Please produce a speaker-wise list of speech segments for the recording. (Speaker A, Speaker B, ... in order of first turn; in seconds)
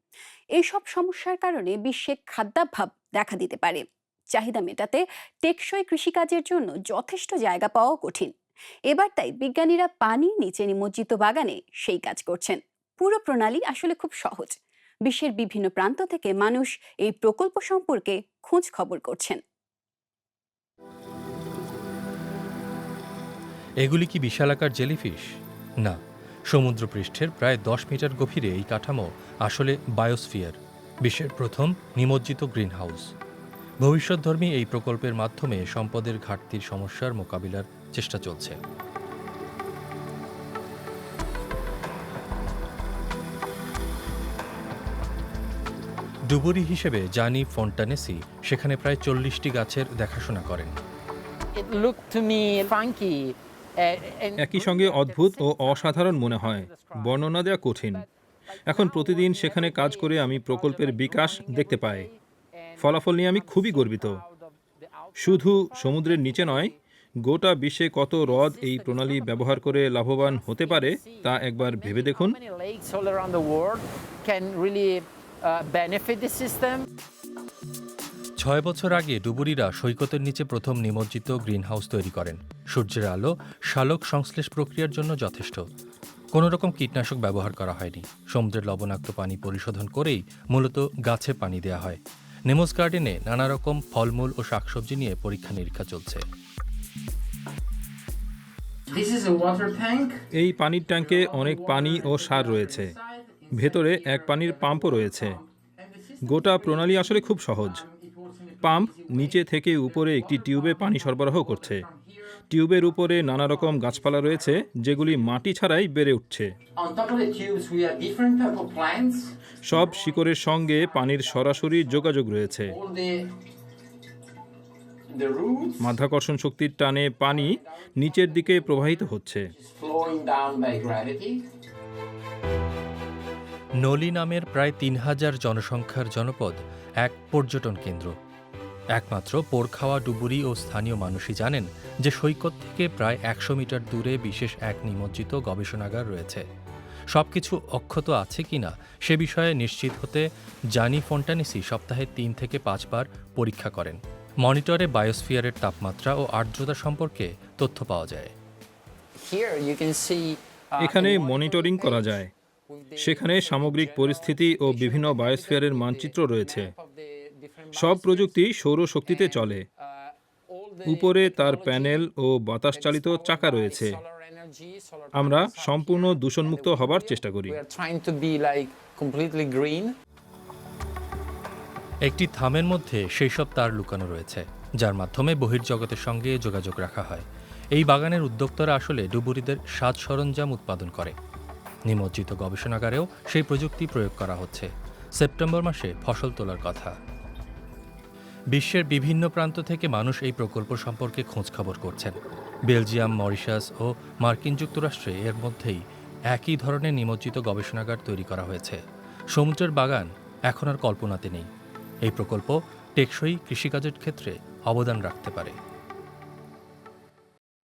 Speaker A: 0.6-8.3, 8.9-14.5, 15.1-19.4
Speaker B: 23.8-25.3, 25.8-33.1, 33.8-38.6, 46.3-50.8, 78.4-85.6, 86.3-96.2, 133.8-138.1, 138.9-146.4, 147.1-158.3, 182.1-187.2, 187.8-191.2, 191.9-196.9, 198.5-202.2, 202.7-208.8, 209.3-211.5, 212.1-215.6
Speaker C: 51.5-57.3, 57.9-66.8, 68.2-76.8, 98.9-100.2, 100.9-115.4, 116.8-123.4, 125.1-126.0, 127.2-131.4, 159.2-168.4, 169.1-172.1, 172.7-179.9
Speaker D: 54.4-58.0, 58.7-62.1, 62.8-64.2, 65.2-66.7, 67.2-72.4, 100.3-103.0, 103.5-105.4, 106.2-107.8, 108.6-111.9, 112.5-116.5, 119.7-122.8, 125.8-129.5, 160.8-162.3, 163.0-166.7, 167.7-169.7, 170.8-174.0, 175.1-177.6